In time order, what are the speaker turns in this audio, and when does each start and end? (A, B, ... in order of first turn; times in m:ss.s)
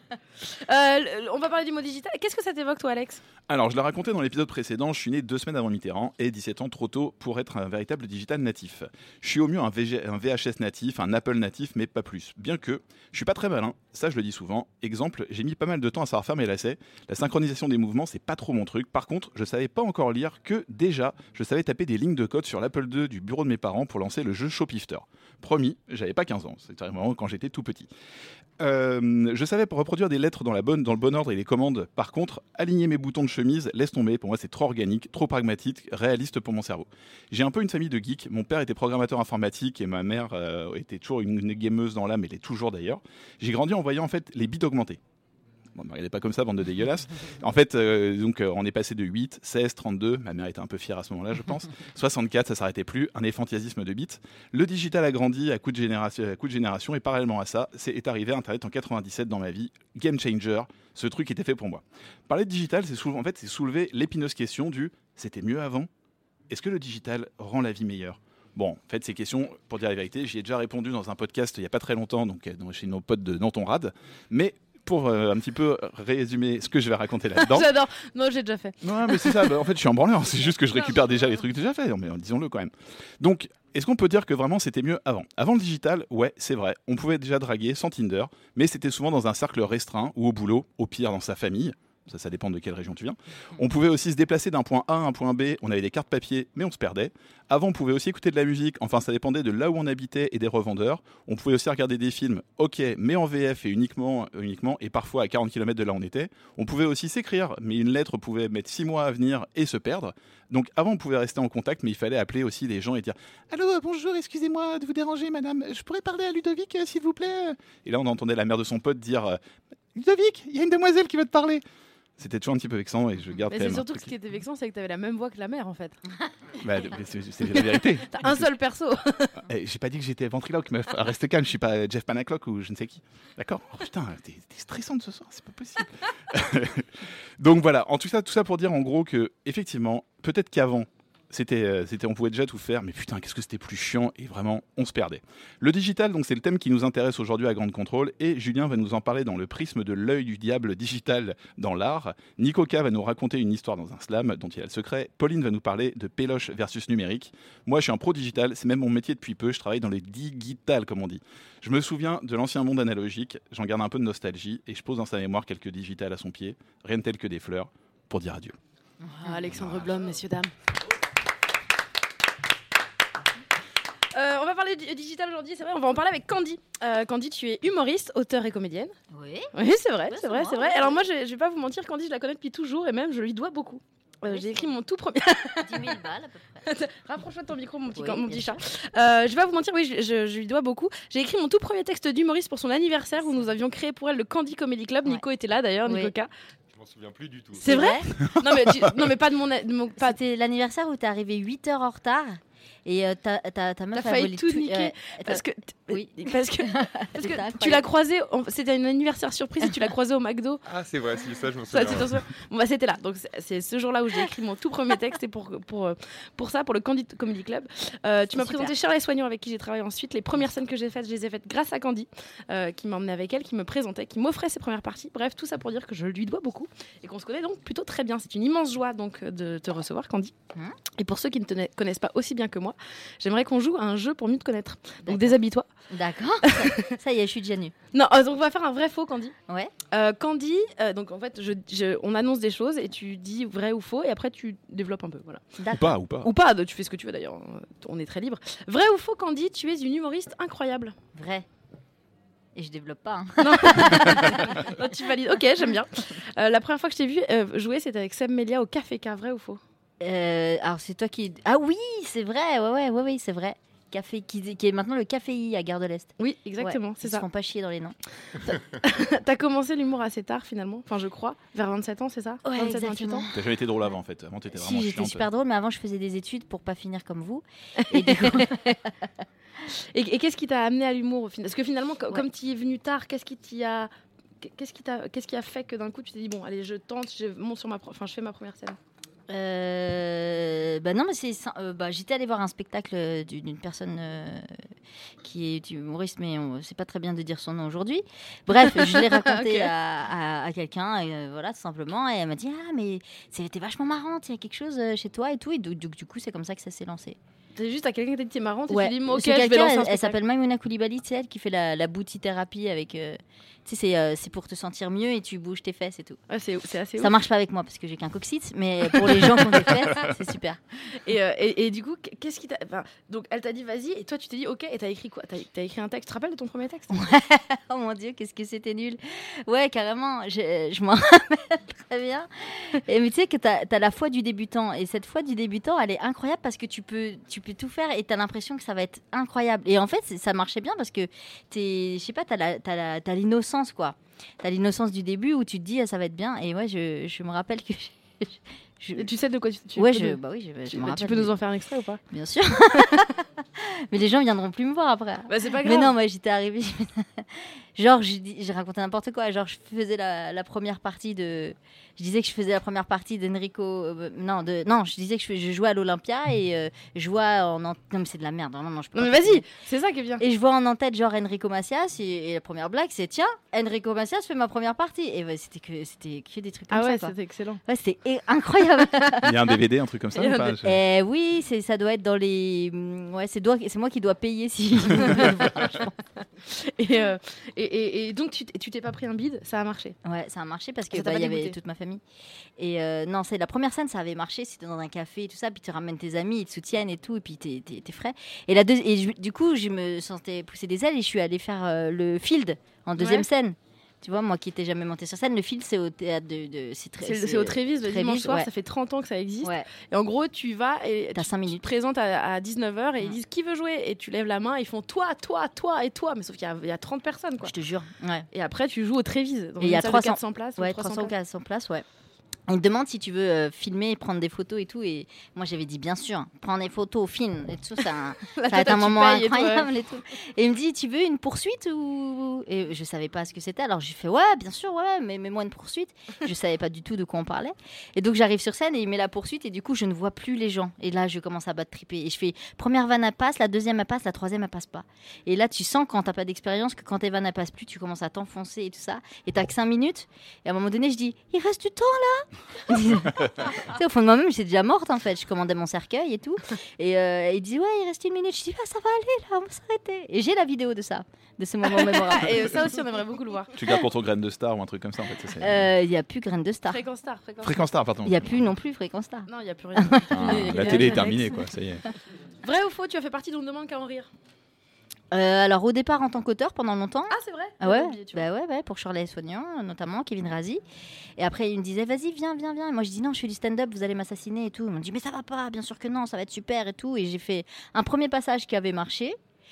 0:00.5-0:03.2 A
0:03.5-0:27.9 B
0:28.6-0:45.0 B
0:45.7-1:05.9 B
1:06.5-1:17.7 B
1:17.4-1:19.2 A
1:18.8-1:59.4 B
1:59.9-2:01.6 B
2:02.2-2:04.1 B
2:03.5-2:06.0 A
2:06.6-2:08.5 B
2:08.1-2:09.4 A
2:09.5-2:48.6 B
2:49.0-2:49.4 C
2:49.2-2:50.5 A
2:49.6-2:49.9 B
2:54.1-2:58.9 A
2:59.1-2:59.5 C
2:59.5-3:06.0 A
3:00.1-3:01.0 C
3:04.3-3:04.6 C
3:05.6-3:06.6 C
3:06.6-3:16.3 A
3:07.9-3:08.6 C
3:15.8-3:16.1 C
3:16.7-3:17.6 D
3:17.6-3:20.1 A
3:17.6-3:18.1 C
3:20.0-3:27.8 C
3:23.9-3:30.6 A
3:30.7-3:32.2 D
3:31.7-3:50.3 A
3:38.3-3:38.7 C
3:51.0-3:55.7 A
3:55.0-3:55.4 C
3:55.9-3:57.7 C
3:56.4-3:56.9 A
3:57.9-3:59.3 A
3:59.9-4:05.4 A
4:05.6-4:05.9 C
4:05.7-4:06.3 B
4:06.2-4:10.9 A
4:11.1-4:11.4 C
4:12.6-4:14.7 C
4:13.4-4:19.6 A
4:20.0-4:27.9 C
4:26.2-4:27.2 A
4:28.8-4:33.2 A
4:32.4-4:33.3 C
4:33.3-4:35.2 B
4:34.5-4:38.8 C
4:37.9-4:38.7 A
4:39.9-4:43.9 A
4:44.4-4:48.8 A
4:49.3-4:54.5 C
4:55.2-5:07.2 C
4:58.6-4:59.7 A
5:07.6-5:10.2 A
5:08.7-5:16.2 C
5:16.3-5:17.1 A
5:17.0-5:20.6 C
5:19.2-5:19.9 A
5:21.0-5:26.9 A
5:26.9-5:49.1 C
5:49.0-5:50.2 A
5:49.8-5:51.3 C
5:50.7-5:52.0 A
5:52.1-6:09.4 C
5:55.3-5:55.9 A
6:09.0-6:10.2 A
6:10.2-6:17.1 C
6:16.7-6:17.6 A
6:17.6-6:19.2 C
6:19.2-6:20.8 B
6:20.1-6:20.6 A
6:20.6-6:26.0 C
6:25.0-6:25.3 A
6:26.4-6:30.0 A
6:30.0-6:32.0 C
6:30.9-6:31.6 A
6:32.6-6:48.5 C
6:43.0-6:43.3 A
6:47.0-6:57.5 A
6:51.1-6:51.6 C
6:57.4-6:58.3 C
6:58.3-7:01.1 A
6:59.6-7:01.8 C
7:02.5-7:42.5 C
7:08.3-7:09.7 A
7:41.7-7:43.5 A
7:43.5-7:45.7 B
7:45.4-7:46.8 C
7:46.7-7:47.6 A
7:47.4-7:48.3 B
7:48.0-7:51.3 C
7:49.3-7:51.2 A
7:50.1-7:51.8 B
7:52.4-7:54.1 A
7:55.1-8:00.6 C
7:57.1-7:58.2 A
8:01.2-8:09.2 C